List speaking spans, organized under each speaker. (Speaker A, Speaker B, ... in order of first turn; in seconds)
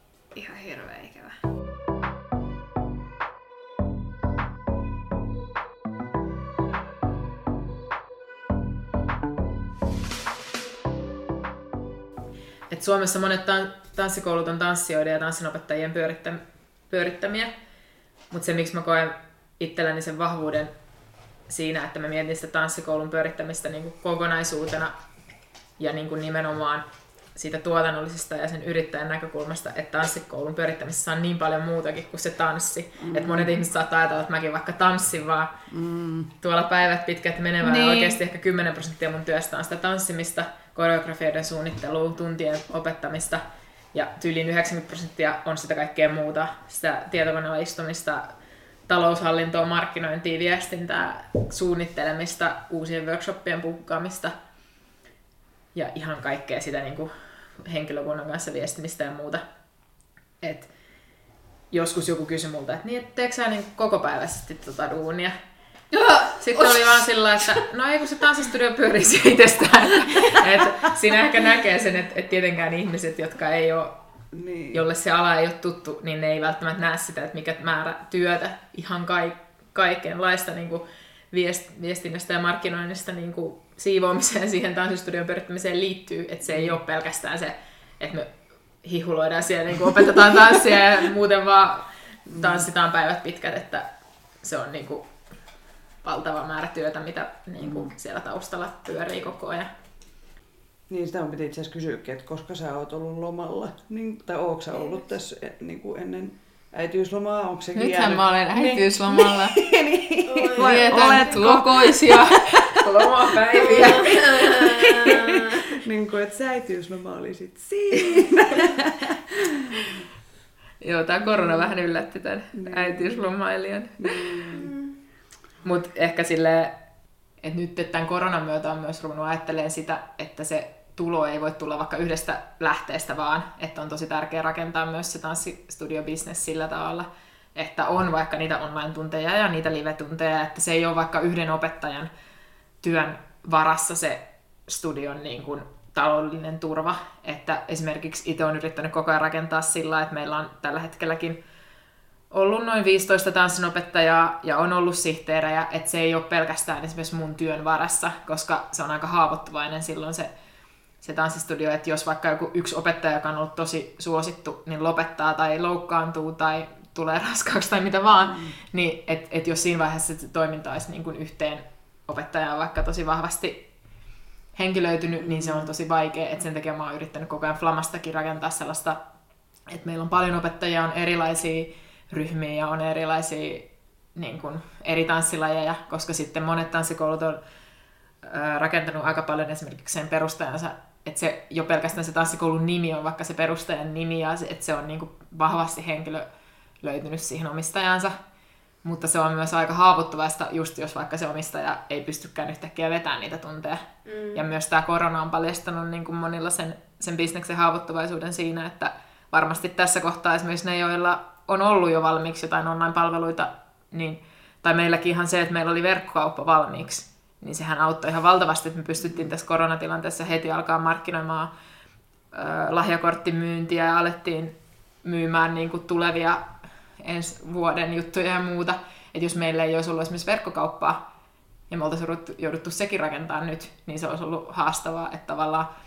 Speaker A: 0.3-1.4, 37.6-38.2, 110.3-111.4, 114.0-115.7, 204.1-204.4
Speaker B: 12.7-17.5, 18.3-20.7, 21.5-24.9, 25.8-35.6, 36.4-48.4, 48.9-54.4, 55.7-59.4, 60.4-60.7, 61.7-65.3, 66.2-73.9, 74.7-88.3, 88.8-93.9, 94.4-95.1, 96.0-99.7, 107.8-109.6, 110.6-115.2, 120.8-124.5, 125.6-126.8, 127.4-142.1, 142.8-151.4, 152.3-160.3, 161.0-173.7, 174.5-179.0, 179.7-187.4, 188.2-196.3, 196.8-198.2, 198.8-221.5, 222.3-231.0, 231.7-235.7
Speaker C: 33.0-33.5, 35.7-36.3, 74.3-74.8, 92.4-92.6, 97.6-97.9, 100.9-112.8, 113.7-114.0, 114.5-120.0, 122.5-123.3, 124.0-124.7, 175.3-175.6